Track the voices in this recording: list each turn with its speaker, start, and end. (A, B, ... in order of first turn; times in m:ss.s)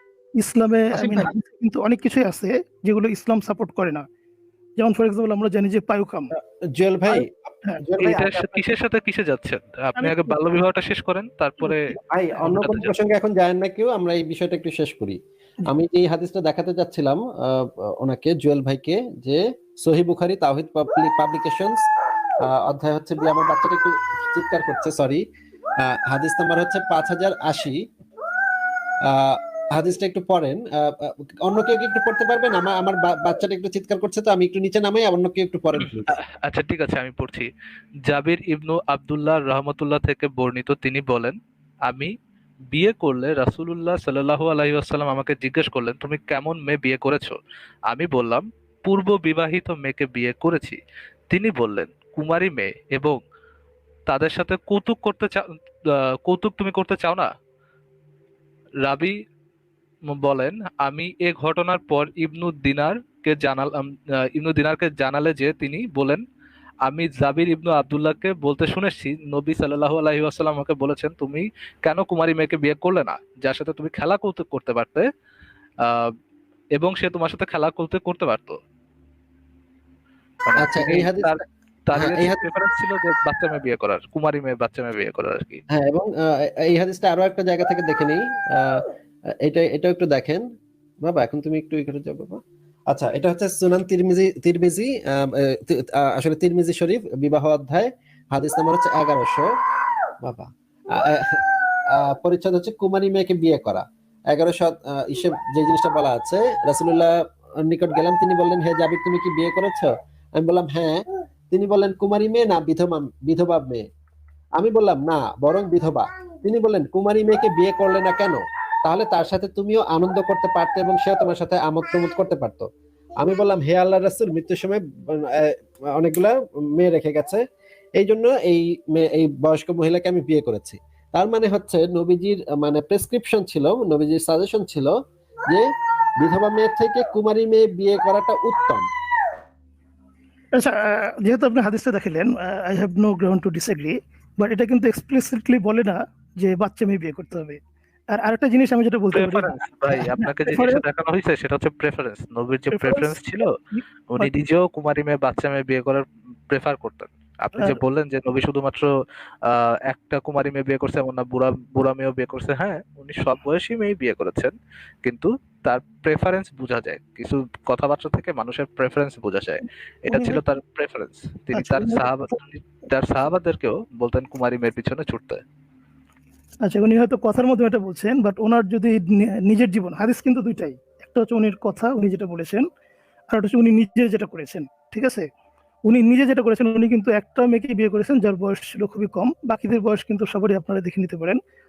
0:00.4-0:04.0 A
0:00.9-0:01.3 B
0:04.8-0:06.3 A
0:06.4-0:08.6 B
0:07.1-0:07.8 A
0:08.0-0:12.9 C
0:10.0-0:10.3 A
0:12.1-0:21.8 B
0:22.4-0:25.2 B
0:25.8-0:27.8 B
0:29.0-0:36.1 B
0:36.1-0:37.5 C
0:38.1-0:42.1 C
0:42.7-0:47.4 C
0:47.9-0:50.8 C
0:51.3-0:53.2 C
0:54.1-0:57.3 C
0:58.8-0:59.1 C
1:00.1-1:06.2 C
1:06.8-1:15.1 C
1:15.8-1:16.1 C
1:16.8-1:18.6 C
1:20.5-1:25.6 C
1:20.6-1:21.4 B
1:21.9-1:22.4 B
1:25.7-1:28.9 B
1:29.4-1:30.5 B
1:31.0-1:39.6 B
1:40.2-1:53.8 B
1:54.6-2:07.4 B
2:08.0-2:15.0 B
2:15.5-2:18.9 B
2:20.5-2:27.6 A
2:28.1-2:30.8 A
2:29.1-2:33.5 C
2:32.7-2:34.3 A
2:34.1-2:38.9 C
2:39.5-2:44.5 C
2:45.0-2:55.4 C
2:50.1-2:50.4 A
2:51.5-2:52.1 A
2:56.6-3:02.7 A
3:03.3-3:05.3 A
3:05.9-3:11.4 A